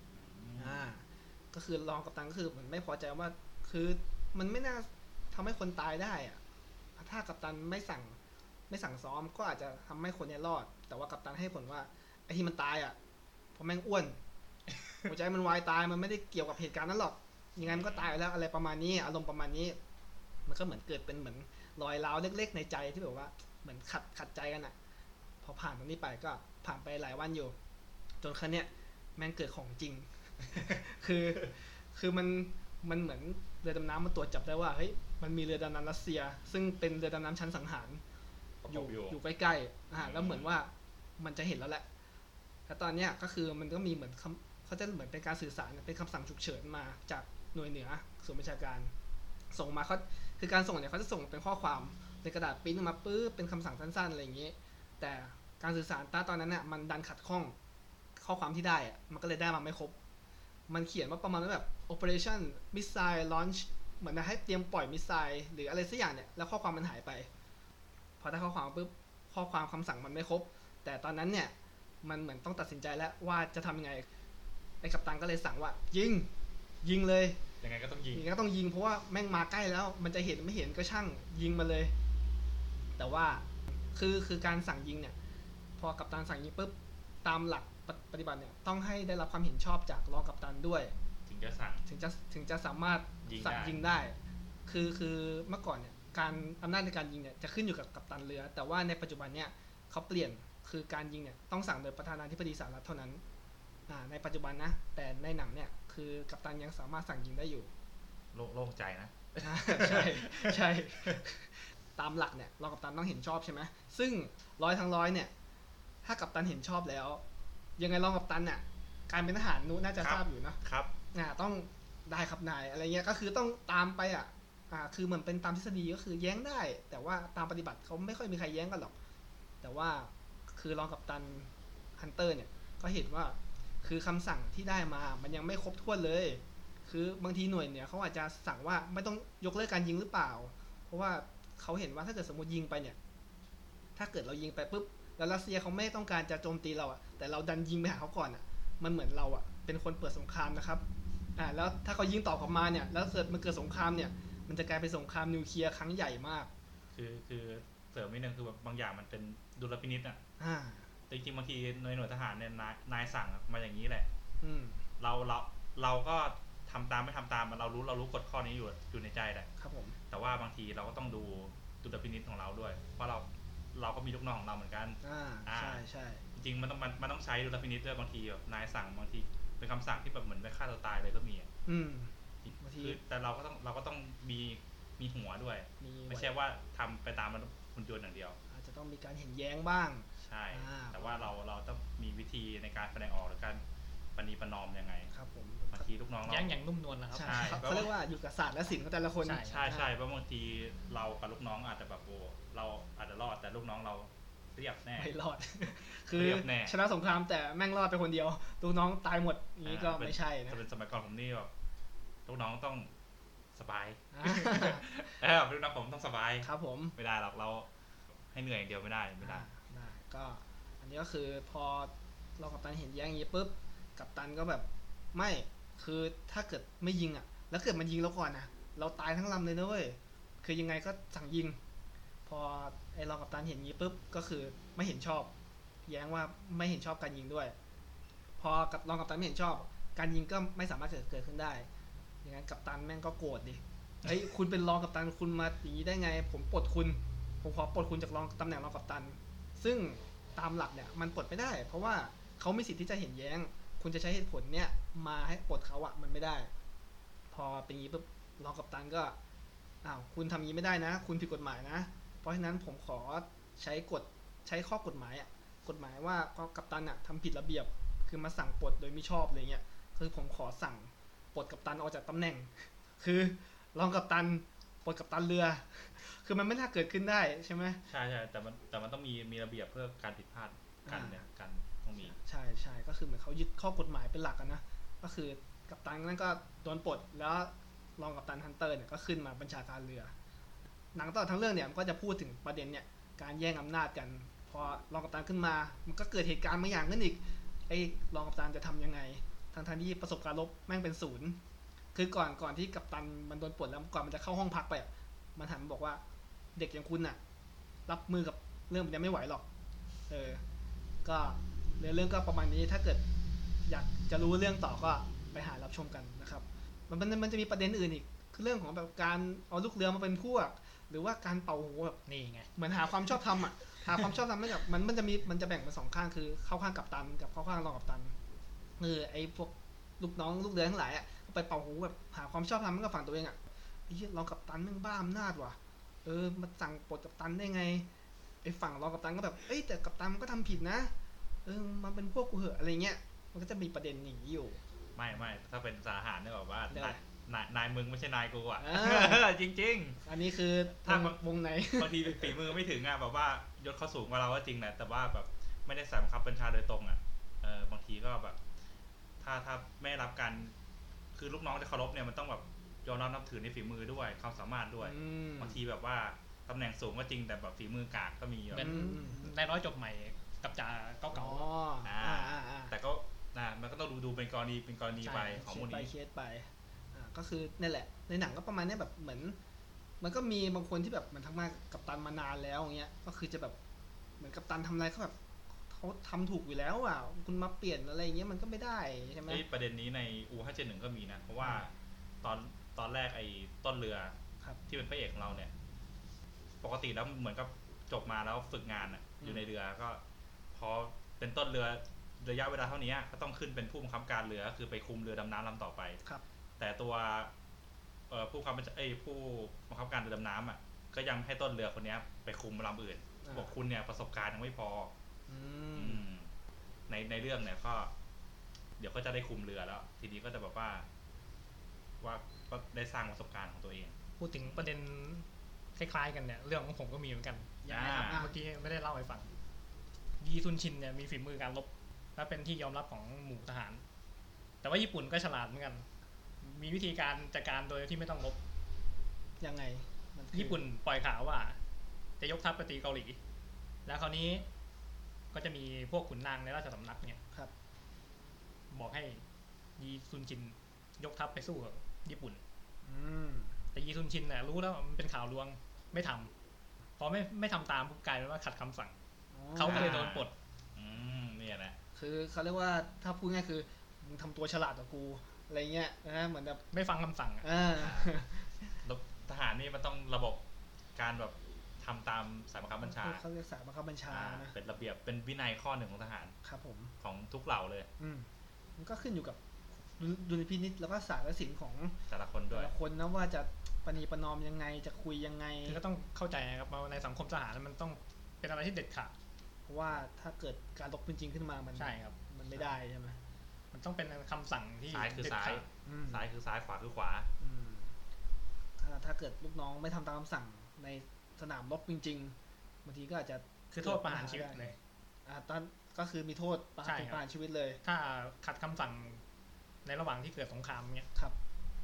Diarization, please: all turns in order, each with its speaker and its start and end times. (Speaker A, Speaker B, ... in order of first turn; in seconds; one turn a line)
Speaker A: 0.1-0.8
Speaker B: 0.6-6.4
Speaker B: 7.0-8.2
Speaker B: 8.7-13.0
Speaker B: 13.6-14.2
Speaker B: 15.0-19.8
Speaker A: 17.6-18.2
Speaker B: 20.5-24.8
Speaker B: 25.4-27.6
Speaker B: 28.2-38.0
Speaker A: 38.6-39.2
Speaker B: 38.7-41.9
Speaker A: 40.0-40.5
Speaker B: 42.7-48.9
Speaker B: 49.5-57.5
Speaker B: 58.2-60.0
Speaker B: 60.7-67.3
Speaker B: 68.2-74.1
Speaker B: 74.8-76.3
Speaker B: 76.8-77.4
Speaker A: 77.6-78.3
Speaker B: 78.1-81.9
Speaker B: 83.0-85.2
Speaker B: 85.8-90.9
Speaker A: 91.3-91.9
Speaker B: 91.9-103.2
Speaker A: 93.2-93.8
Speaker B: 103.9-107.7
Speaker A: 108.3-111.2
Speaker B: 109.4-115.3
Speaker B: 116.0-117.2
Speaker B: 117.8-120.6
Speaker A: 120.0-120.9
Speaker B: 121.1-128.9
Speaker B: 129.6-143.0
Speaker B: 144.0-150.8
Speaker B: 151.4-156.5
Speaker A: 156.9-160.2
Speaker B: 160.4-160.9
Speaker A: 161.1-164.1
Speaker B: 164.4-164.9
Speaker A: 165.0-169.5
Speaker B: 169.6-170.0
Speaker A: 170.1-175.8
Speaker B: 175.0-176.2
Speaker A: 176.3-181.5
Speaker B: 181.7-183.0
Speaker A: 182.4-188.4
Speaker B: 185.8-186.3
Speaker B: 188.5-191.3
Speaker A: 190.2-193.6
Speaker A: 194.2-195.1
Speaker B: 195.1-195.9
Speaker A: 195.7-196.5
Speaker C: 196.3-197.6
Speaker B: 197.1-199.9
Speaker A: 197.2-197.9
Speaker C: 199.2-199.8
Speaker A: 199.4-205.1
Speaker B: 205.0-210.6
Speaker A: 205.6-206.8
Speaker A: 209.7-211.5
Speaker A: 212.3-212.9
Speaker A: 213.5-217.7
Speaker B: 214.1-215.1
Speaker B: 216.4-216.9
Speaker A: 218.3-219.5
Speaker B: 219.2-231.6
Speaker B: 232.3-235.3
Speaker B: 235.9-237.6
Speaker B: 238.4-241.7
Speaker B: 242.2-256.5
Speaker B: 257.3-259.2
Speaker B: 259.8-277.8
Speaker A: 277.9-282.2
Speaker B: 280.9-281.2
Speaker B: 282.0-290.1
Speaker B: 290.9-301.4
Speaker B: 301.9-306.0
Speaker B: 306.6-307.2
Speaker B: 307.9-309.5
Speaker B: 310.1-310.4
Speaker B: 311.0-313.0
Speaker B: 313.6-322.0
Speaker C: 322.1-322.5
Speaker B: 322.6-328.1
Speaker B: 328.8-337.9
Speaker B: 338.4-340.9
Speaker B: 341.4-344.6
Speaker A: 344.9-350.0
Speaker B: 346.7-347.0
Speaker B: 348.6-349.2
Speaker B: 350.1-352.4
Speaker A: 350.9-351.2
Speaker A: 351.8-358.4
Speaker A: 359.2-360.5
Speaker A: 361.1-368.7
Speaker B: 364.8-365.6
Speaker C: 368.5-371.5
Speaker B: 368.5-369.3
Speaker B: 371.1-372.8
Speaker A: 371.8-375.9
Speaker C: 375.0-375.4
Speaker B: 375.3-379.4
Speaker B: 380.0-383.6
Speaker B: 384.2-385.1
Speaker B: 385.7-389.4
Speaker A: 389.3-394.2
Speaker A: 394.7-395.5
Speaker A: 396.6-400.0
Speaker A: 400.5-406.0
Speaker A: 406.6-407.3
Speaker A: 408.1-414.9
Speaker B: 413.2-413.5
Speaker B: 415.3-416.0
Speaker A: 415.8-416.3
Speaker A: 416.9-417.9
Speaker A: 418.8-420.9
Speaker A: 422.0-424.0
Speaker C: 424.2-429.3
Speaker B: 427.6-428.3
Speaker A: 427.7-428.2
Speaker C: 430.2-433.8
Speaker C: 434.6-435.9
Speaker C: 436.4-438.4
Speaker B: 439.4-440.6
Speaker C: 440.3-441.6
Speaker C: 442.2-443.2
Speaker C: 443.9-444.5
Speaker C: 445.3-447.2
Speaker C: 448.7-449.2
Speaker C: 449.8-452.4
Speaker B: 452.8-453.6
Speaker C: 453.7-456.3
Speaker C: 457.0-459.0
Speaker B: 459.3-460.1
Speaker C: 459.5-460.3
Speaker A: 459.7-461.8
Speaker B: 461.9-466.6
Speaker C: 466.7-467.5
Speaker B: 467.4-468.7
Speaker A: 467.8-468.1
Speaker A: 468.8-470.4
Speaker A: 471.0-473.2
Speaker B: 472.8-474.5
Speaker A: 474.1-476.4
Speaker B: 476.4-476.9
Speaker A: 477.0-477.9
Speaker B: 478.0-479.4
Speaker B: 480.0-482.0
Speaker A: 482.1-482.7
Speaker B: 482.5-485.8
Speaker C: 485.6-489.1
Speaker B: 489.7-493.2
Speaker C: 491.8-492.2
Speaker C: 493.7-495.6
Speaker A: 494.9-497.3
Speaker B: 495.9-496.3
Speaker B: 497.4-497.9
Speaker B: 498.8-504.7
Speaker C: 503.7-504.8
Speaker B: 505.3-507.8
Speaker C: 506.8-507.2
Speaker C: 507.8-509.2
Speaker C: 509.9-511.1